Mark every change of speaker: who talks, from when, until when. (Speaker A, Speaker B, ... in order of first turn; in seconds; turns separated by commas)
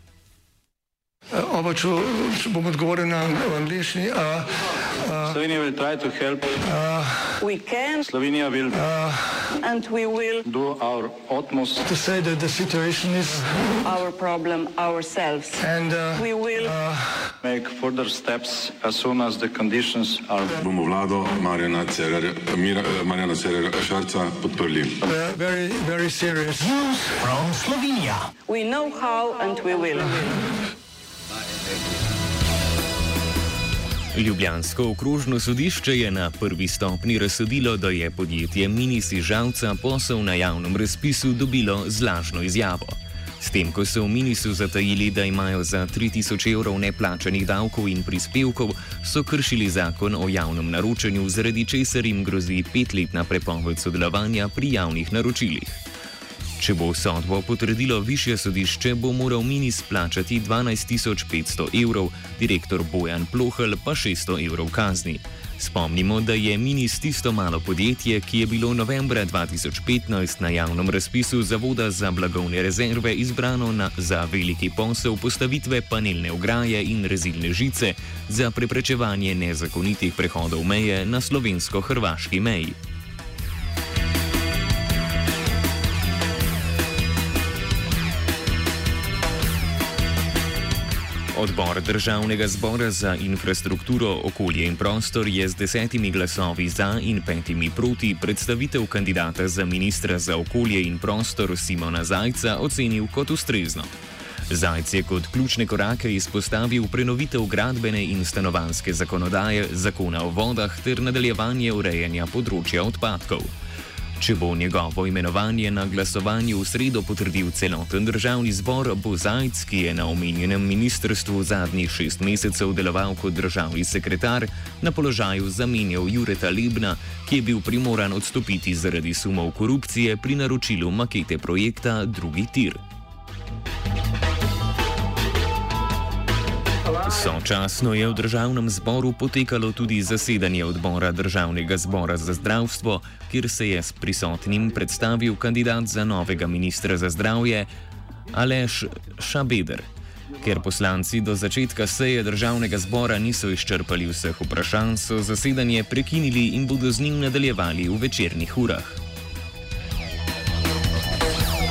Speaker A: 1.3-5.4, Speaker B: 5.2-6.6, Speaker A: 6.6-7.4, Speaker C: 7.4-8.1, Speaker B: 8.0-8.8, Speaker A: 8.7-9.5, Speaker C: 9.5-10.4, Speaker B: 10.4-11.8, Speaker A: 11.8-13.8, Speaker C: 13.8-15.6, Speaker A: 15.6-17.3, Speaker C: 16.2-16.7, Speaker B: 17.4-20.6, Speaker D: 20.6-25.1, Speaker A: 25.0-27.8, Speaker C: 28.5-30.4, Speaker E: 34.1-55.8, Speaker E: 56.6-82.8, Speaker E: 91.3-103.9, Speaker E: 104.5-113.5, Speaker E: 114.2-132.8, Speaker E: 136.9-147.7, Speaker E: 148.3-149.9, Speaker E: 150.4-159.0